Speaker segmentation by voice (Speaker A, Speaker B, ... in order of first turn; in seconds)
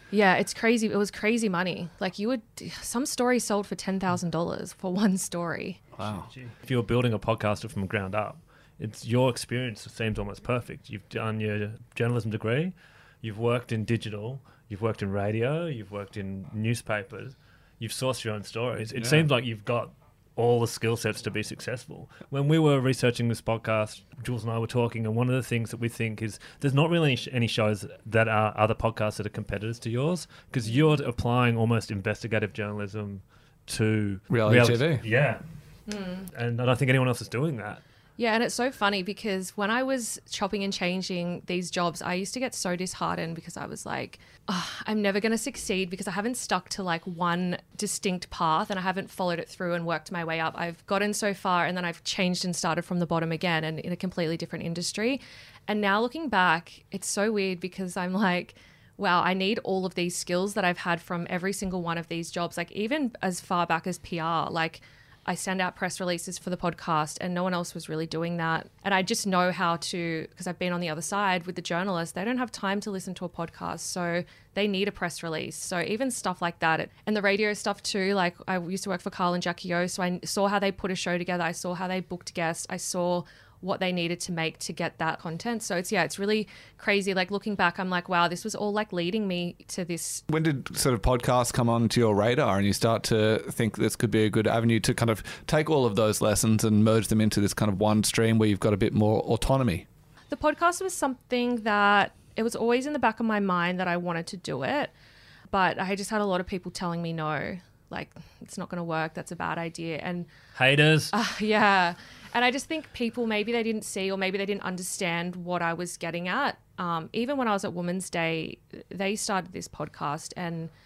Speaker A: 0.1-5.8, 35.9-36.3, 38.2-90.2, 100.3-104.9, 105.5-110.3, 111.1-120.7
Speaker B: 6.0-6.3, 19.0-19.2, 34.3-35.0, 90.3-99.8
Speaker C: 6.0-35.4, 36.3-37.8, 110.5-111.1